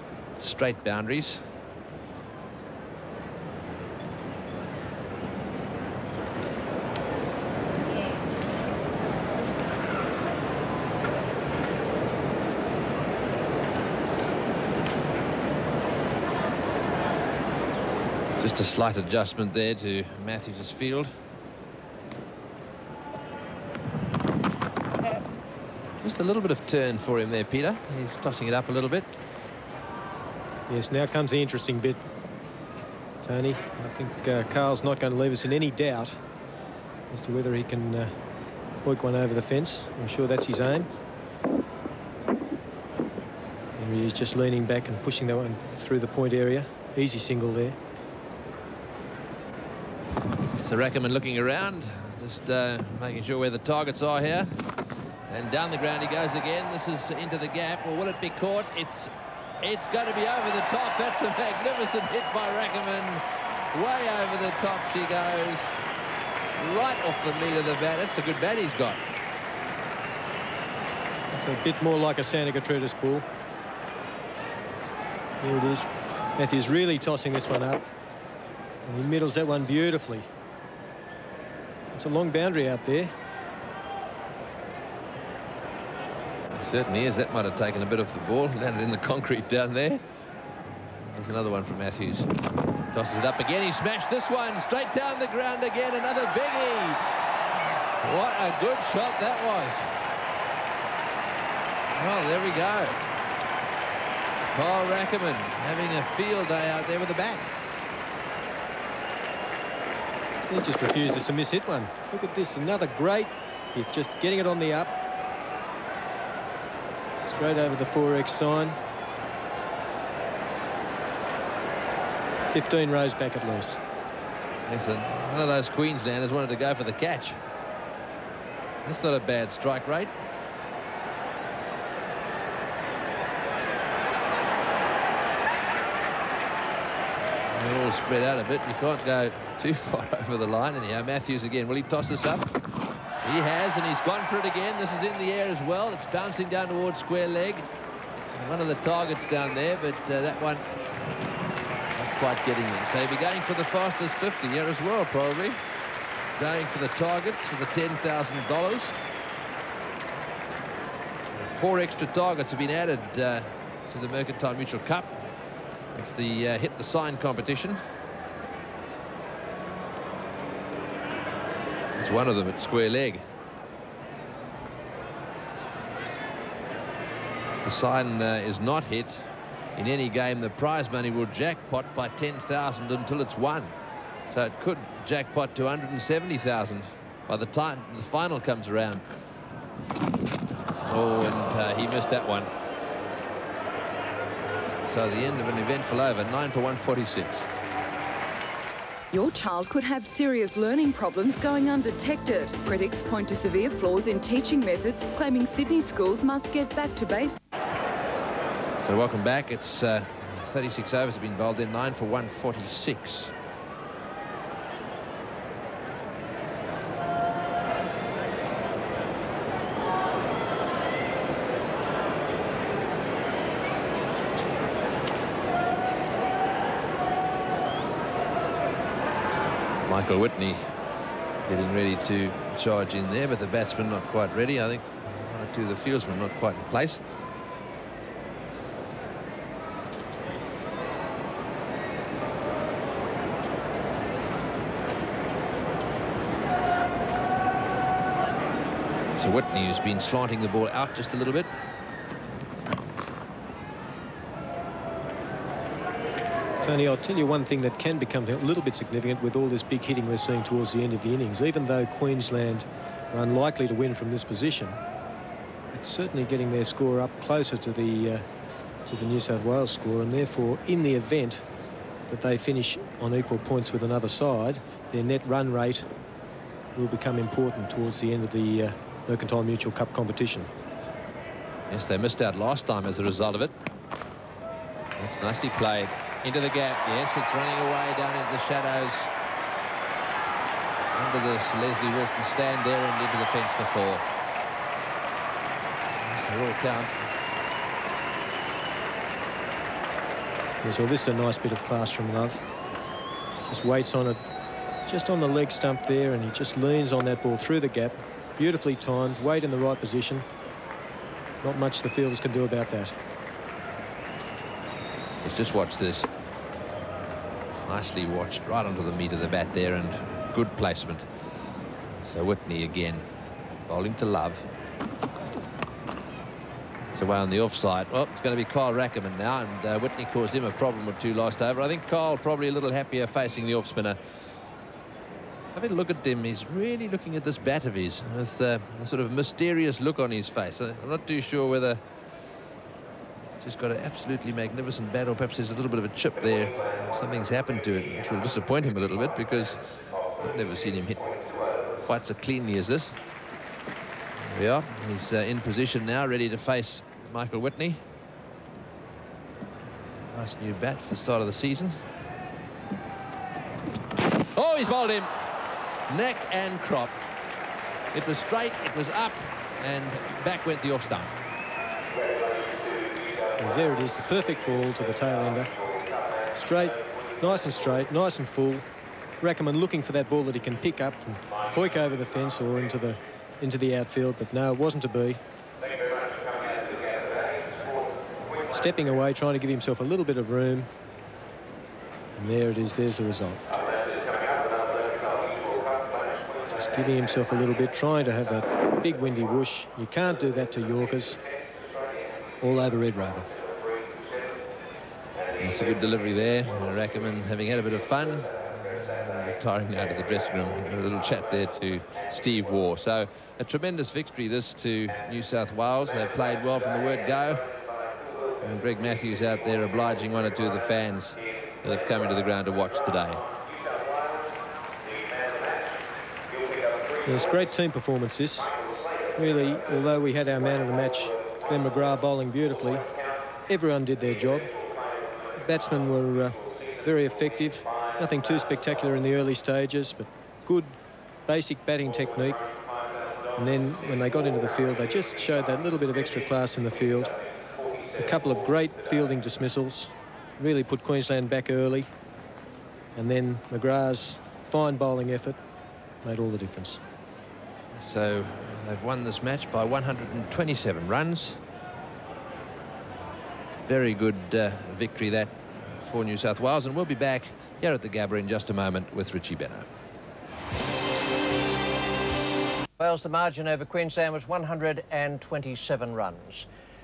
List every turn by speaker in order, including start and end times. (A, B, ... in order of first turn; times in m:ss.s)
0:00.4-0:01.4 A
0:18.4-0:21.1 A
0:26.0-0:29.1 A
0:30.7-0:32.0 B
0:33.2-0:36.2 B
0:37.1-0:38.1 B
0:38.8-0:40.9 B
0:43.8-0:47.8 B
0:50.6-0:54.5 A
0:55.3-1:05.7 A
1:06.6-1:09.0 A
1:11.3-1:13.2 B
1:15.4-1:17.8 B
1:18.8-1:20.2 B
1:21.9-1:23.1 B
1:26.6-1:30.0 A
1:30.8-1:32.3 A
1:32.9-1:37.0 A
1:38.0-1:39.9 A
1:42.0-1:43.0 A
1:44.5-1:47.5 A
1:50.5-1:54.9 B
1:57.2-1:58.8 B
2:02.5-2:03.8 B
2:04.6-2:07.4 A
2:08.8-2:10.1 A
2:17.5-2:22.5 A
2:23.2-2:27.6 A
2:28.3-2:30.6 A
2:31.9-2:35.6 A
2:36.4-2:38.9 A
2:41.3-2:45.1 A
2:45.9-2:47.8 A
2:52.0-2:53.2 A
2:57.6-3:03.7 A
3:04.3-3:09.0 A
3:10.8-3:12.5 A
3:14.8-3:17.5 A
3:19.1-3:27.4 C
3:28.8-3:33.3 A
3:49.8-3:50.7 A
3:51.4-3:57.0 A
4:09.1-4:11.5 A
4:16.6-4:24.8 B
4:25.7-4:28.2 B
4:28.8-4:31.4 B
4:32.1-4:35.9 B
4:36.7-4:40.5 B
4:41.7-4:43.5 A
4:45.0-4:49.1 A
4:50.9-4:54.0 A
4:56.0-4:57.0 A
5:00.6-5:02.4 B
5:03.5-5:04.2 B
5:04.9-5:10.2 B
5:11.4-5:12.9 B
5:15.2-5:16.1 A
5:17.6-5:21.0 A
5:21.9-5:23.1 A
5:23.7-5:24.4 A
5:26.9-5:34.0 A
5:35.5-5:41.8 A
5:43.4-5:49.6 A
5:50.2-5:51.1 A
5:51.8-5:53.0 A
5:54.2-5:57.8 A
6:00.1-6:01.8 A
6:04.3-6:05.1 A
6:05.9-6:07.0 A
6:07.9-6:11.1 A
6:13.4-6:15.5 B
6:16.3-6:18.6 B
6:19.2-6:25.2 B
6:28.5-6:30.7 B
6:32.2-6:33.4 B
6:36.5-6:41.2 B
6:42.4-6:43.3 B
6:45.4-6:57.4 A
6:58.4-7:03.2 A
7:07.0-7:08.5 B
7:09.2-7:12.9 B
7:13.5-7:14.5 B
7:15.4-7:22.4 B
7:23.4-7:27.1 B
7:28.0-7:31.9 B
7:33.0-7:35.4 B
7:36.0-7:36.8 B
7:37.7-7:41.4 A
7:43.6-7:49.7 A
7:52.8-7:56.5 D